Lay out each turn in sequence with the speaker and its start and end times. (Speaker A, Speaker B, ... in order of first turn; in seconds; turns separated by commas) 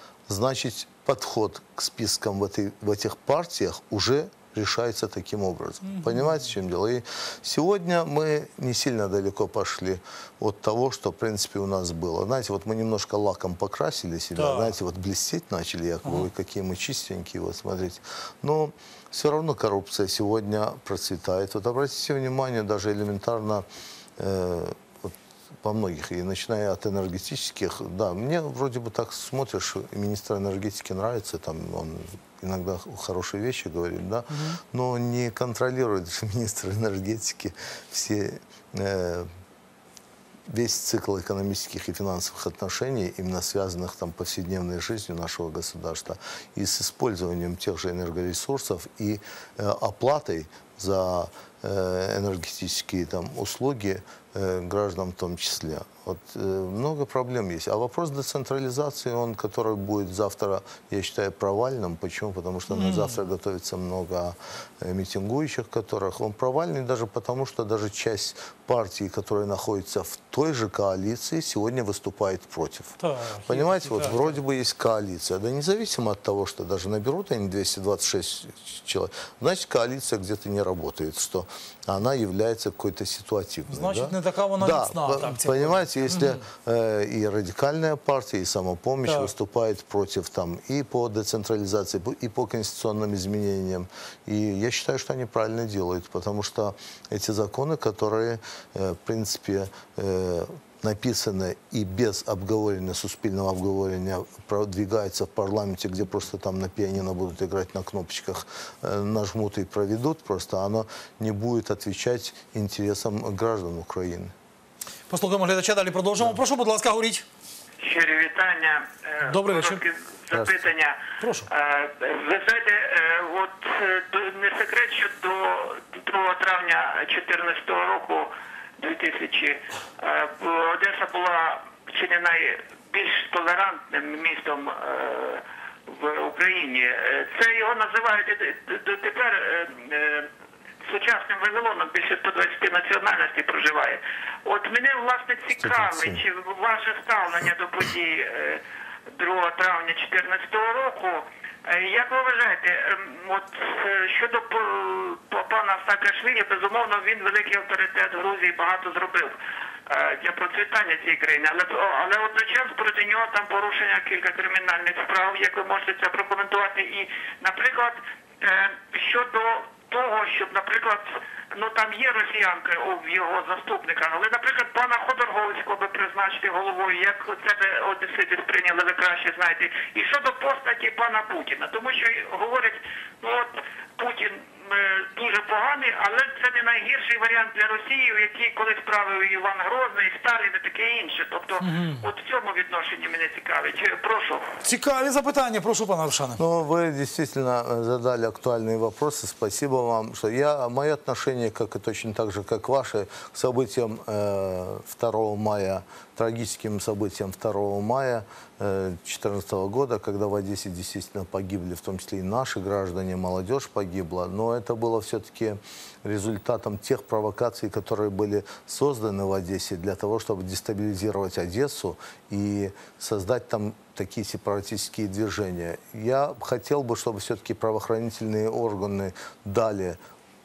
Speaker A: 0.3-23.7, Speaker B: 5.8-6.5, Speaker B: 14.4-14.8, Speaker A: 24.2-39.3, Speaker B: 34.3-34.6, Speaker A: 40.5-114.3, Speaker B: 62.7-63.2, Speaker B: 73.0-74.4, Speaker B: 83.7-86.4, Speaker B: 89.0-89.3, Speaker B: 115.1-117.2, Speaker C: 117.8-121.0, Speaker B: 119.3-119.8, Speaker B: 121.2-121.5, Speaker C: 121.5-140.3, Speaker C: 140.8-148.6, Speaker A: 145.6-146.2, Speaker C: 149.1-159.4, Speaker C: 159.9-194.5, Speaker B: 191.6-192.1, Speaker B: 194.6-196.4, Speaker A: 196.4-230.0